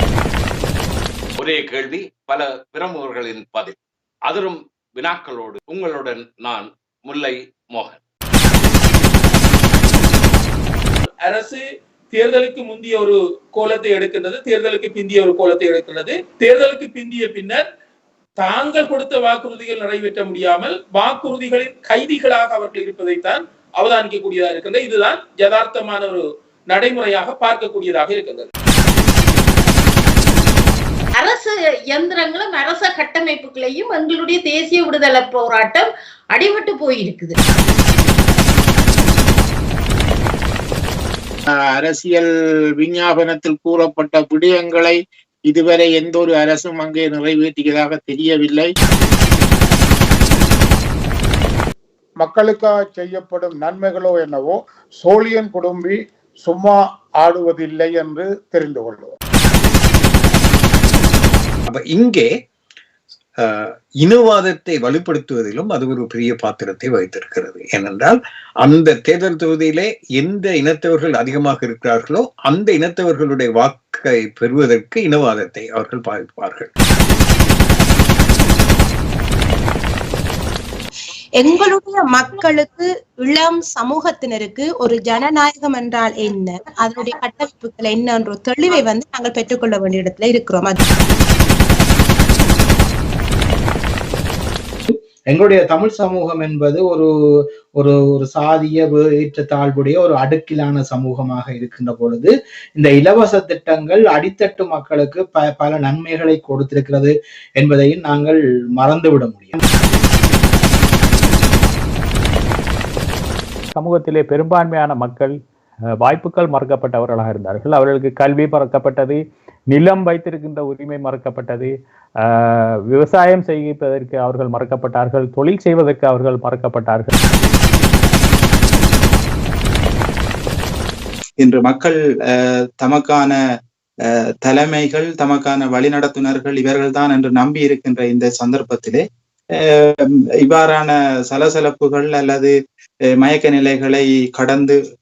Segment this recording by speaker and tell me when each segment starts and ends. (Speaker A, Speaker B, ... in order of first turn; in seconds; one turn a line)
Speaker A: 1.4-3.8
Speaker A: 4.3-8.0
Speaker B: 11.2-17.6
Speaker B: 18.4-28.5
Speaker C: 31.1-37.4
Speaker D: 41.5-48.7
Speaker E: 52.2-59.1
Speaker F: 61.7-62.3
Speaker F: 63.4-76.7
Speaker G: 81.4-90.8
Speaker H: 94.9-97.1
Speaker H: 97.8-109.6
Speaker I: 113.7-115.4
Speaker I: 116.0-121.7
Speaker I: 122.2-127.1
Speaker J: 131.4-133.3
Speaker J: 134.4-139.0
Speaker J: 139.6-142.5
Speaker J: 143.2-144.8